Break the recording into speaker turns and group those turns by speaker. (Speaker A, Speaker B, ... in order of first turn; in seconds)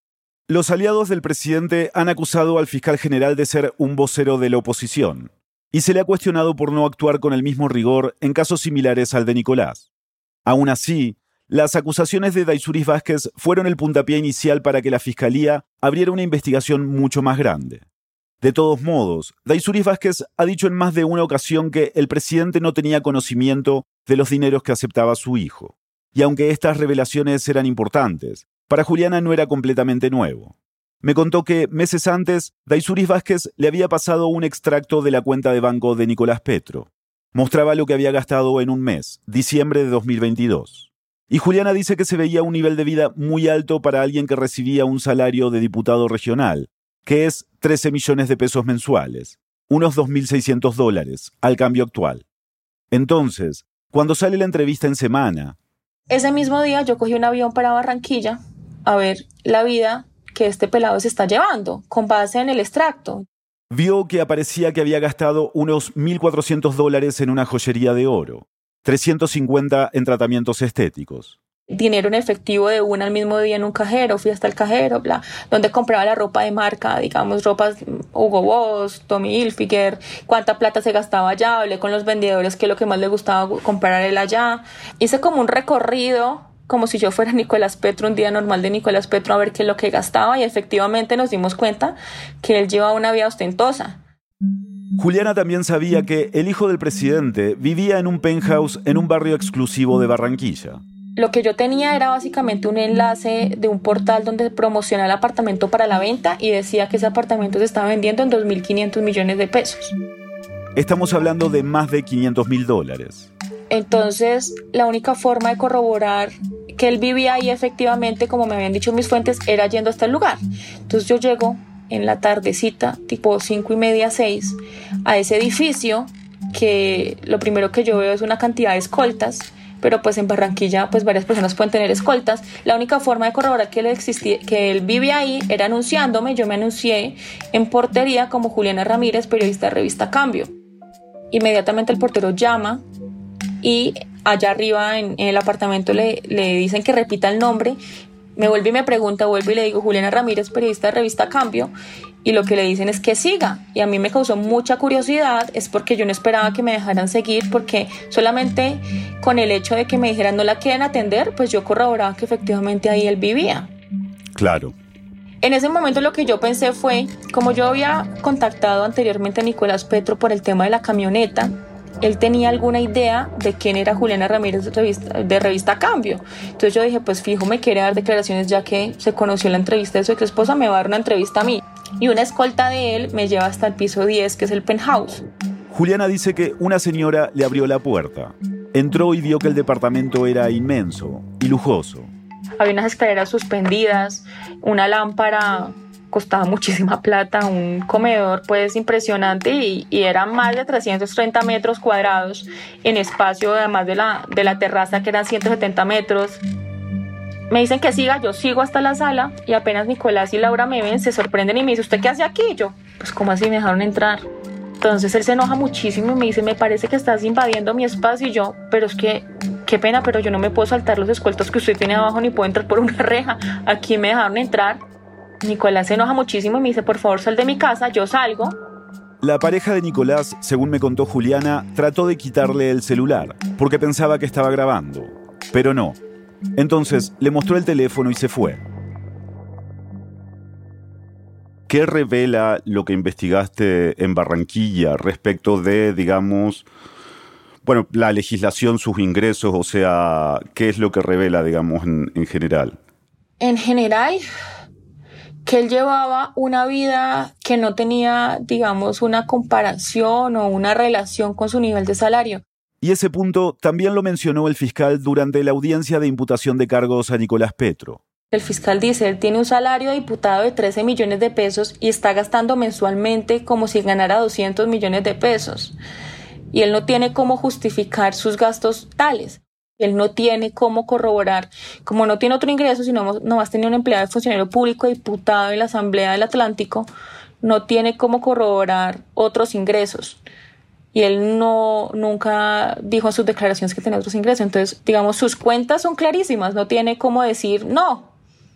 Speaker A: 0.5-9.9, 10.5-17.9, 18.4-52.2, 52.9-55.6, 63.7-71.4, 95.0-100.8, 110.8-113.3, 164.4-164.8, 185.7-192.1, 229.2-236.0, 236.6-238.6, 241.7-246.7, 247.6-252.8, 262.8-268.0
Speaker B: 56.1-63.2, 71.7-94.0, 101.2-110.0, 113.7-140.5, 141.3-142.8, 143.6-147.8, 148.4-151.7, 152.2-163.7, 165.4-185.3, 192.6-206.4, 207.5-214.2, 214.8-224.8, 225.4-228.6, 253.4-254.2, 255.4-262.4, 268.3-275.8, 276.5-286.9, 287.4-290.2, 290.9-298.1